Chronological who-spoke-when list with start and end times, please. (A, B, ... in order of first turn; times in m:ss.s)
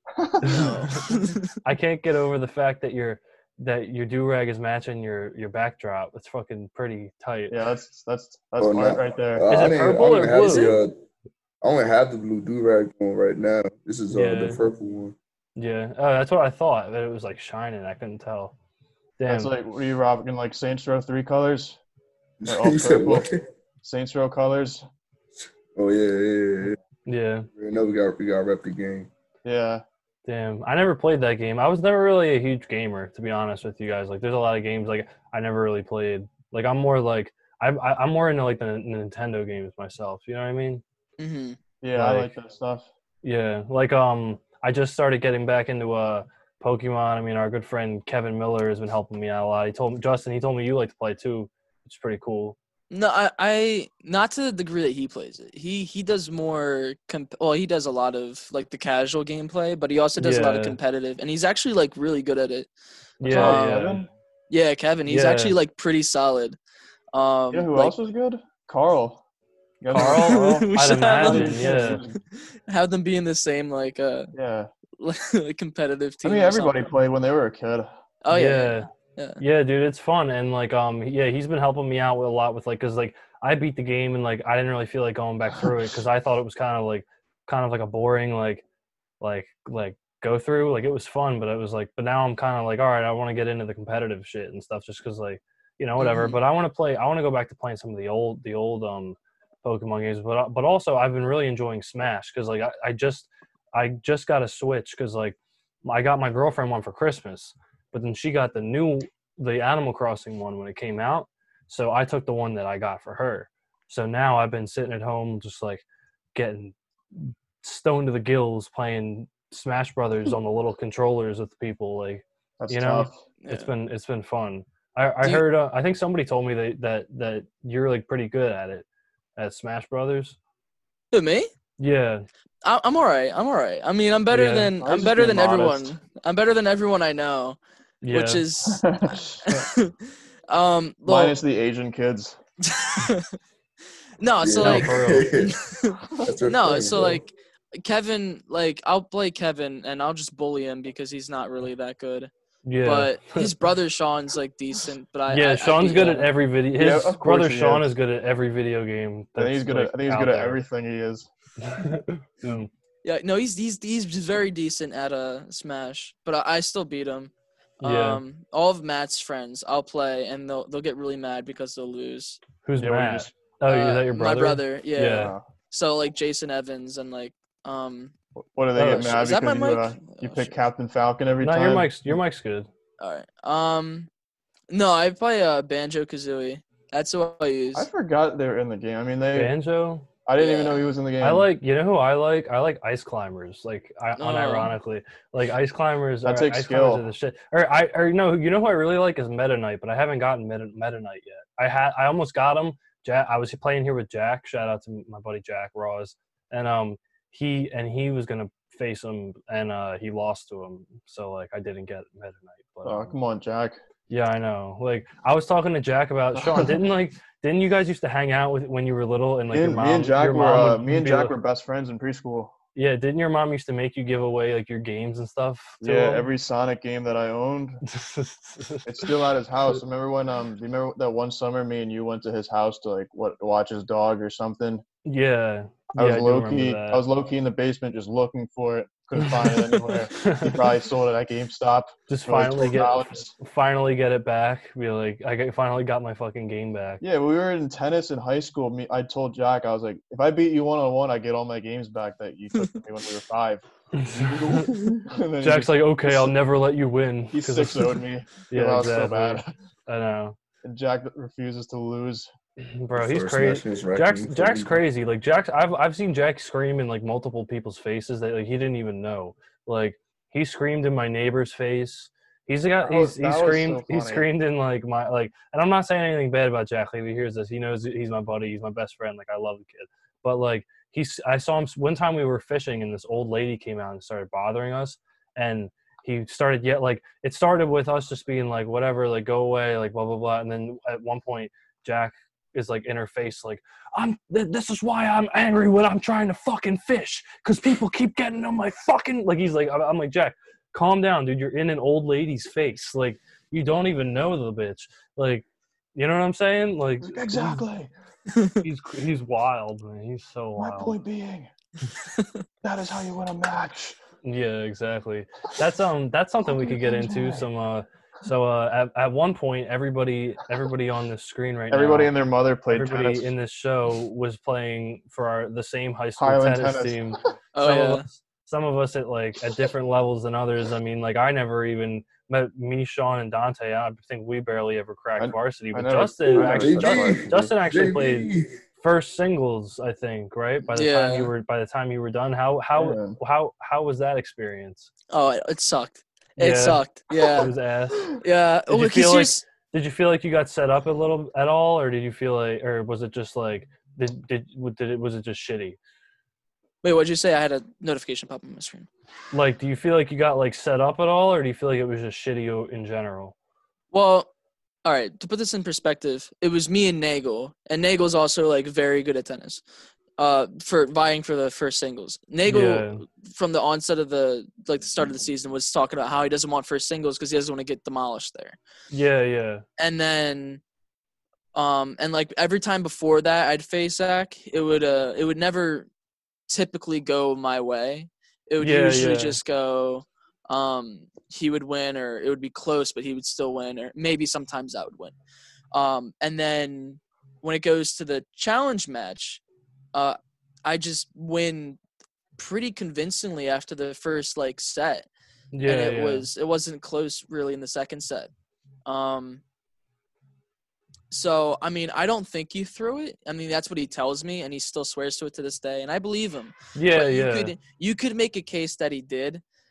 0:00.2-0:01.0 A
0:00.4-0:01.5 B
0:01.6-0:07.5 C
0:07.5-0:09.4 A
0:08.6-0:11.0 D
0:09.5-0:10.7 C
0:10.5-0:10.7 B
0:11.6-0:15.2 D
0:14.1-0:14.6 C
0:15.6-0:18.5 C
0:19.2-0:19.5 C
0:19.3-0:21.8 A
0:22.4-0:23.4 D
0:22.5-0:23.2 A
0:23.8-0:24.8 A
0:25.4-0:26.8 D
0:27.1-0:27.5 C
0:27.6-0:29.1 D
0:29.4-0:29.8 A
0:30.2-0:40.8 C
0:41.2-0:41.6 B
0:41.8-0:42.9 A
0:41.9-0:42.3 C
0:43.2-0:52.6 C
0:52.9-1:02.7 B
1:00.2-1:00.8 C
1:03.2-1:04.0 C
1:03.2-1:04.1 A
1:03.3-1:03.9 B
1:04.5-1:06.6 B
1:05.1-1:05.6 C
1:07.1-1:07.9 B
1:07.5-1:09.2 A
1:09.8-1:12.2 A
1:09.9-1:12.0 C
1:10.0-1:14.3 B
1:14.3-1:14.7 A
1:15.0-1:16.9 B
1:16.2-1:17.9 A
1:18.2-1:19.4 B
1:18.3-1:18.9 C
1:19.4-1:28.6 C
1:29.2-1:55.8 C
1:36.0-1:36.4 B
1:56.3-2:08.8 C
2:02.6-2:03.2 A
2:03.4-2:03.7 B
2:09.4-2:10.4 C
2:11.1-2:11.5 B
2:11.8-2:12.2 C
2:12.6-2:17.6 B
2:14.3-2:14.7 C
2:14.8-2:15.9 A
2:18.0-2:18.4 C
2:18.1-2:18.9 B
2:18.6-2:19.6 A
2:19.4-2:19.9 B
2:20.5-2:21.4 B
2:21.1-2:22.4 A
2:22.6-2:23.4 B
2:24.2-2:32.3 B
2:24.4-2:25.6 D
2:24.6-2:25.3 C
2:26.2-2:27.2 D
2:32.6-2:33.5 C
2:32.8-2:36.3 B
2:35.3-2:40.6 C
2:36.8-2:37.9 A
2:39.4-2:41.3 A
2:41.6-2:42.7 C
2:43.0-2:52.4 B
2:47.8-2:48.2 C
2:52.6-2:55.3 C
2:52.8-2:53.3 A
2:53.6-2:58.1 B
2:55.1-2:55.4 A
2:58.5-3:02.0 A
2:58.8-2:59.1 C
2:58.9-3:00.6 B
3:01.4-3:02.7 C
3:03.0-3:04.1 B
3:04.7-3:07.9 B
3:07.7-3:09.5 A
3:09.3-3:10.1 C
3:10.2-3:11.5 A
3:10.4-3:10.9 B
3:11.2-3:33.1 C
3:14.2-3:14.7 B
3:16.2-3:17.0 A
3:32.8-3:33.8 A
3:34.1-3:41.3 C
3:36.4-3:36.8 A
3:39.5-3:42.5 A
3:42.7-3:46.3 C
3:45.8-3:47.8 A
3:47.9-3:48.8 C
3:48.8-3:54.8 A
3:55.0-3:57.0 C
3:55.9-4:03.3 A
3:59.2-4:00.6 C
4:02.1-4:07.0 C
4:07.0-4:16.3 A
4:13.9-4:18.0 C
4:17.3-4:19.5 A
4:18.5-4:20.4 C
4:20.6-4:22.3 A
4:22.6-5:07.6 C
4:22.9-4:24.8 D
4:32.8-4:34.3 A
5:07.0-5:07.9 A
5:08.3-5:08.6 B
5:08.6-5:11.0 C
5:10.6-5:11.5 A
5:12.6-5:14.0 A
5:14.2-5:22.1 C
5:16.4-5:17.5 A
5:21.7-5:23.3 A
5:22.7-5:44.9 C
5:26.2-5:27.1 A
5:27.5-5:28.0 B
5:35.2-5:37.5 A
5:36.3-5:38.6 D
5:40.7-5:41.3 B
5:42.8-5:43.2 A
5:45.1-5:47.5 B
5:46.4-5:48.1 C
5:48.2-5:49.4 B
5:48.7-5:55.8 C
5:56.8-5:58.9 B
5:59.3-6:03.3 C
6:03.9-6:04.3 B
6:04.8-6:09.6 B
6:10.2-6:18.6 B
6:12.5-6:13.0 C
6:18.9-6:19.6 C
6:19.8-6:20.6 B
6:21.5-6:25.9 B
6:26.5-6:35.1 B
6:28.6-6:29.4 C
6:35.7-6:39.4 B
6:39.9-6:41.8 B
6:42.4-6:45.1 B
6:45.5-6:46.3 C
6:45.6-6:48.3 B
6:48.8-6:49.4 B
6:51.1-6:59.4 B
6:56.7-6:57.5 C